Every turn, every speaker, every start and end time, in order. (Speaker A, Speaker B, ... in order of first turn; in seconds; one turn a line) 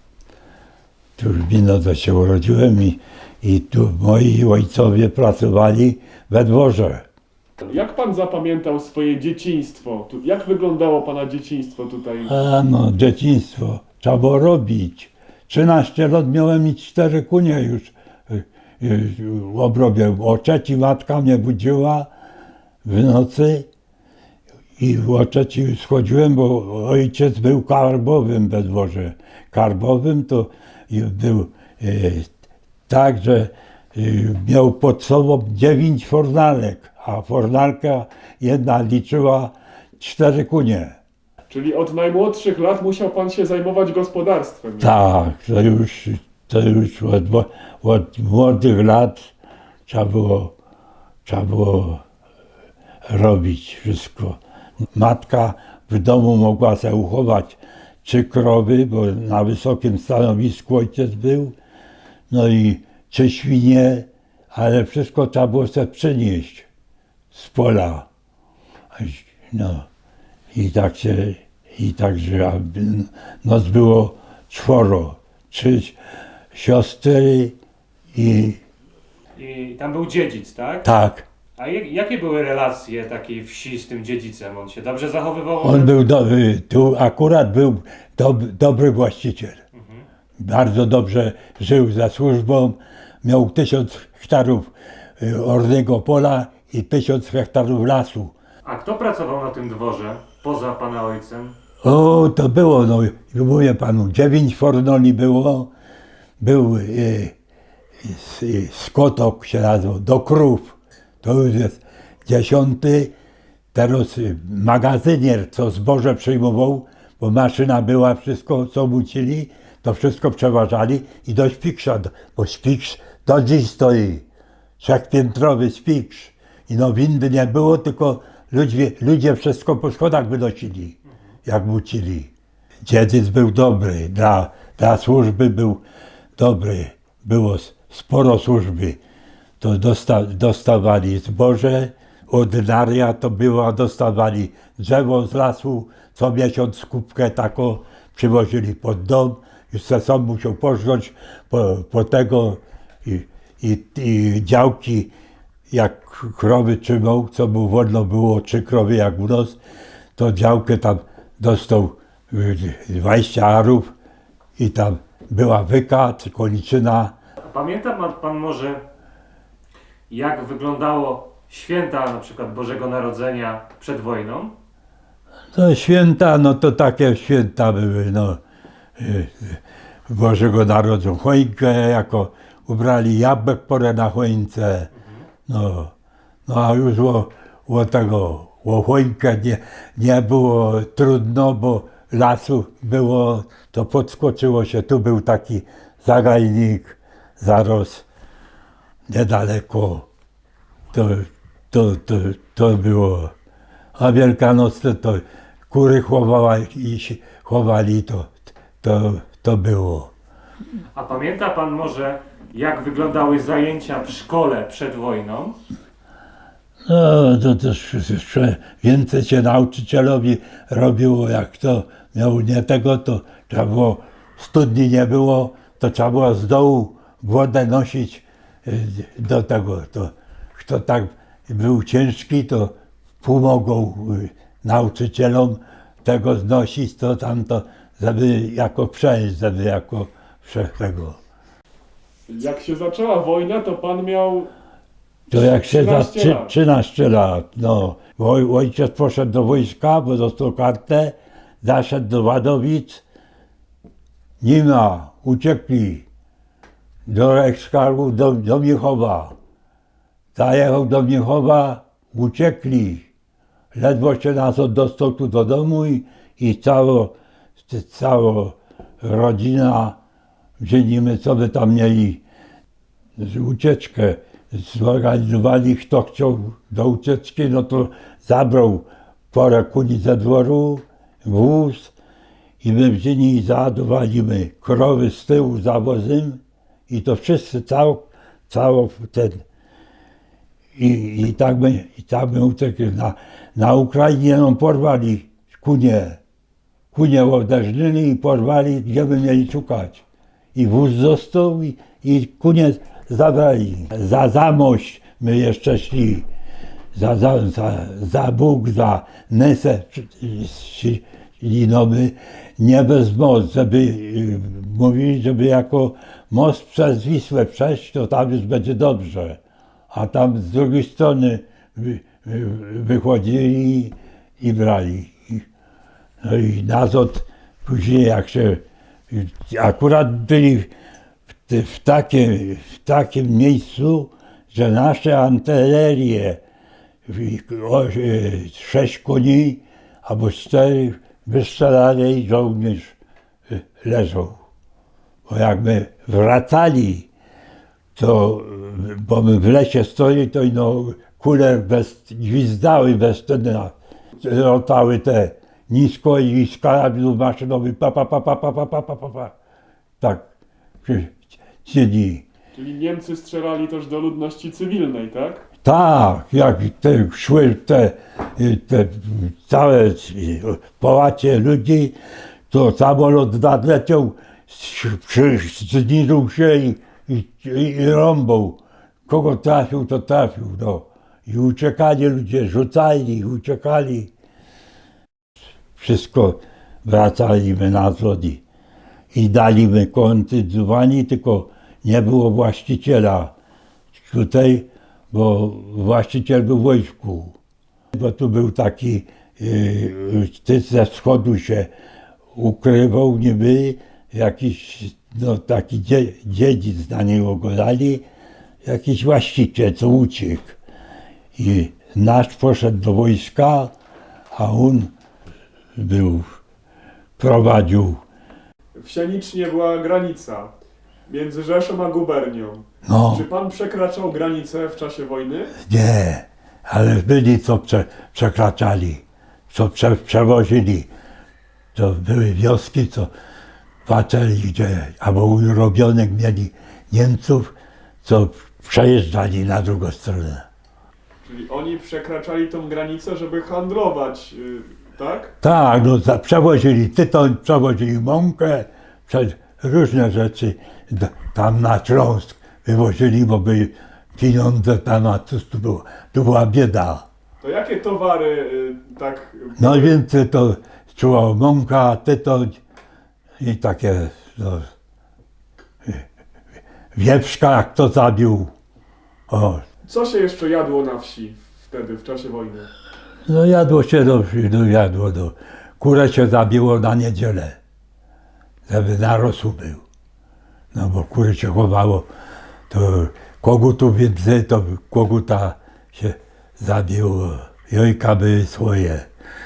Speaker A: 1.2-7.0
Speaker B: 7.6-12.3
Speaker A: 12.3-22.1
Speaker A: 22.8-23.7
Speaker A: 24.8-32.3
Speaker A: 32.9-41.0
Speaker B: 41.5-45.0
Speaker A: 44.8-49.3
Speaker A: 49.9-50.6
Speaker A: 51.2-52.0
Speaker A: 53.1-54.4
Speaker A: 55.0-61.6
Speaker A: 62.3-66.7
Speaker A: 67.3-68.1
Speaker A: 68.9-69.9
Speaker A: 70.5-76.0
Speaker A: 76.5-77.6
Speaker A: 78.1-78.6
Speaker C: 79.4-80.9
Speaker A: 80.8-81.3
Speaker C: 81.6-86.0
Speaker A: 85.6-89.6
Speaker C: 89.8-90.0
Speaker A: 90.4-98.3
Speaker C: 98.7-101.5
Speaker A: 101.8-105.7
Speaker A: 106.4-107.3
Speaker A: 108.0-113.1
Speaker A: 113.7-124.2
Speaker A: 124.8-132.3
Speaker A: 132.9-135.8
Speaker A: 136.4-139.0
Speaker A: 139.6-155.1
Speaker A: 155.7-159.6
Speaker A: 160.2-163.9
Speaker A: 164.6-167.1
Speaker C: 167.4-168.8
Speaker C: 170.1-174.5
Speaker A: 175.5-178.4
Speaker A: 179.0-184.9
Speaker A: 185.5-185.9
Speaker A: 186.5-198.1
Speaker A: 199.1-200.1
Speaker A: 200.9-203.3
Speaker A: 204.0-210.1
Speaker C: 210.9-215.6
Speaker A: 216.8-241.2
Speaker B: 242.3-244.5
Speaker A: 245.3-253.0
Speaker B: 245.3-246.6
Speaker A: 254.4-256.1
Speaker A: 257.1-259.4
Speaker A: 260.4-263.1
Speaker A: 263.8-270.0
Speaker A: 270.6-272.2
Speaker A: 273.2-281.9
Speaker A: 282.6-289.4
Speaker A: 290.8-296.2
Speaker A: 296.9-300.0
Speaker A: 300.6-306.3
Speaker A: 306.9-319.4
Speaker A: 319.9-325.4
Speaker A: 326.2-330.7
Speaker A: 331.5-336.4
Speaker A: 337.1-343.0
Speaker A: 343.5-344.4
Speaker A: 345.3-347.1
Speaker A: 347.9-359.3
Speaker A: 360.0-360.2
Speaker A: 360.8-362.2
Speaker B: 362.6-365.4
Speaker A: 365.6-372.0
Speaker A: 372.5-384.1
Speaker A: 385.8-388.4
Speaker A: 389.1-393.4
Speaker A: 394.0-397.4
Speaker A: 397.9-401.7
Speaker A: 402.3-408.1
Speaker A: 408.6-410.6
Speaker A: 411.4-413.7
Speaker A: 414.3-414.9
Speaker A: 415.8-416.4
Speaker A: 417.2-418.0
Speaker B: 418.8-420.5
Speaker B: 421.1-425.6
Speaker A: 422.9-423.3
Speaker A: 425.7-430.9
Speaker A: 431.7-433.1
Speaker A: 433.9-440.5
Speaker B: 441.2-445.3
Speaker A: 445.4-457.1
Speaker B: 457.4-460.0
Speaker A: 459.6-462.6
Speaker A: 463.4-464.7
Speaker A: 466.9-468.5
Speaker A: 469.3-469.6
Speaker B: 469.9-472.7
Speaker A: 473.3-477.6
Speaker A: 478.7-479.8
Speaker A: 480.7-482.1
Speaker A: 482.7-489.1